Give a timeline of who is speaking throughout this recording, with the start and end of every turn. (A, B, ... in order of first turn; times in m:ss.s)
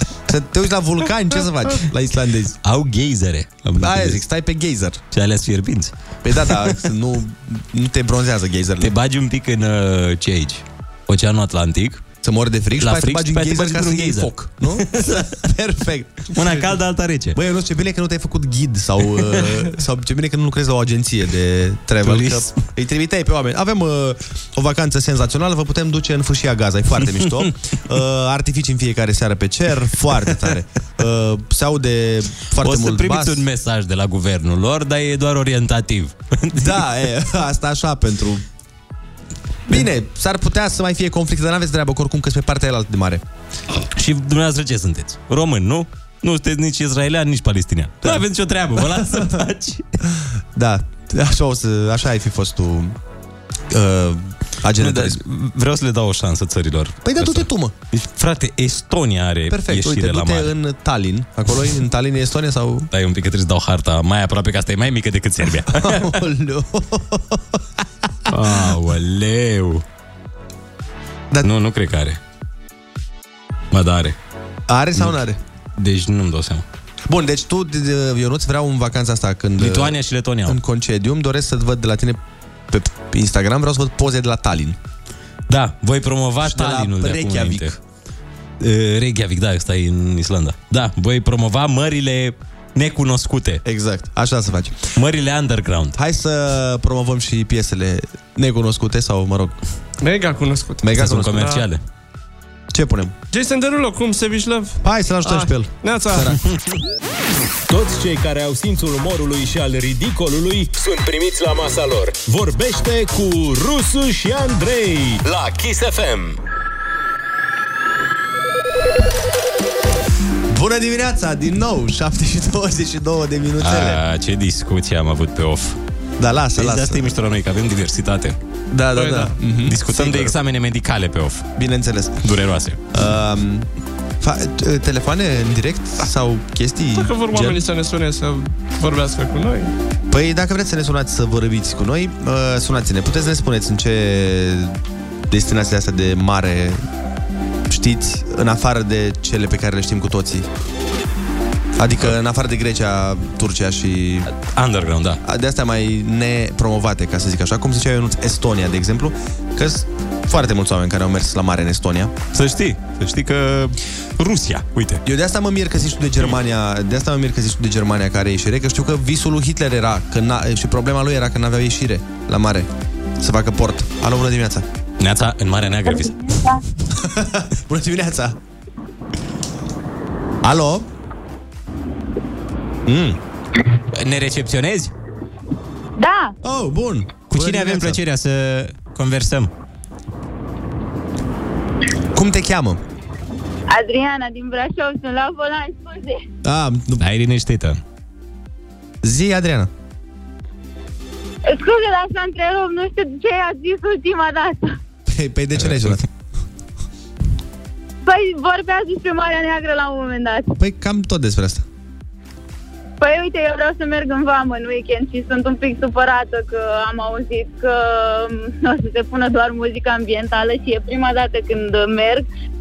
0:00.3-0:02.6 A
0:02.6-0:04.2 B
0:03.8-0:05.0 A
0:05.1-0:06.8 B
0:06.2-0:08.9 A
0:08.8-0:12.0 B
0:12.2-0:16.3 A
0:12.8-0:15.4 B
0:16.3-0:17.4 B
0:17.3-0:33.4 A
0:22.0-0:22.6 B
0:32.6-0:36.8 B
0:36.6-0:38.4 A
0:39.7-0:43.2 A
0:43.9-0:50.0 B
0:50.5-0:53.0 A
0:53.7-0:55.2 A
0:54.8-1:00.5 B
0:57.0-0:57.8 A
0:59.5-1:02.9 A
1:02.9-1:06.2 B
1:05.8-1:07.6 A
1:08.3-1:09.8 B
1:11.4-1:12.2 B
1:13.7-1:14.2 B
1:14.7-1:15.4 A
1:15.8-1:16.6 B
1:17.1-1:22.2 A
1:19.6-1:20.6 B
1:22.7-1:24.8 A
1:25.5-1:27.7 B
1:26.4-1:27.8 A
1:28.6-1:33.6 B
1:33.6-1:34.9 A
1:34.9-1:36.0 B
1:36.0-1:39.6 A
1:40.0-1:41.6 C
1:40.8-1:41.5 A
1:40.9-1:41.8 B
1:42.7-1:43.1 A
1:43.3-1:46.4 C
1:44.8-1:46.4 A
1:47.7-1:56.4 D
2:00.5-2:04.0 A
2:03.6-2:05.8 B
2:06.2-2:07.1 A
2:06.5-2:08.4 B
2:08.7-2:10.3 A
2:08.9-2:09.4 C
2:09.7-2:11.5 B
2:11.6-2:12.3 A
2:12.2-2:12.8 B
2:12.9-2:13.7 A
2:14.2-2:17.6 A
2:17.0-2:19.7 C
2:20.1-2:24.8 A
2:25.3-2:26.8 A
2:27.7-2:30.5 A
2:31.8-2:34.3 A
2:34.3-2:35.2 B
2:35.2-2:42.2 A
2:42.3-2:45.0 B
2:45.0-2:54.6 A
2:55.0-2:56.5 B
2:55.8-2:56.6 E
2:56.9-2:58.4 A
3:00.4-3:00.9 A
3:02.8-3:03.2 A
3:03.9-3:04.9 B
3:06.0-3:06.4 E
3:06.4-3:08.0 A
3:07.3-3:09.5 B
3:12.1-3:12.8 A
3:13.7-3:16.2 E
3:16.4-3:17.0 A
3:17.0-3:17.8 B
3:19.0-3:19.7 A
3:21.4-3:24.8 E
3:25.1-3:26.0 A
3:28.0-3:30.5 E
3:30.6-3:31.6 A
3:33.0-3:42.2 E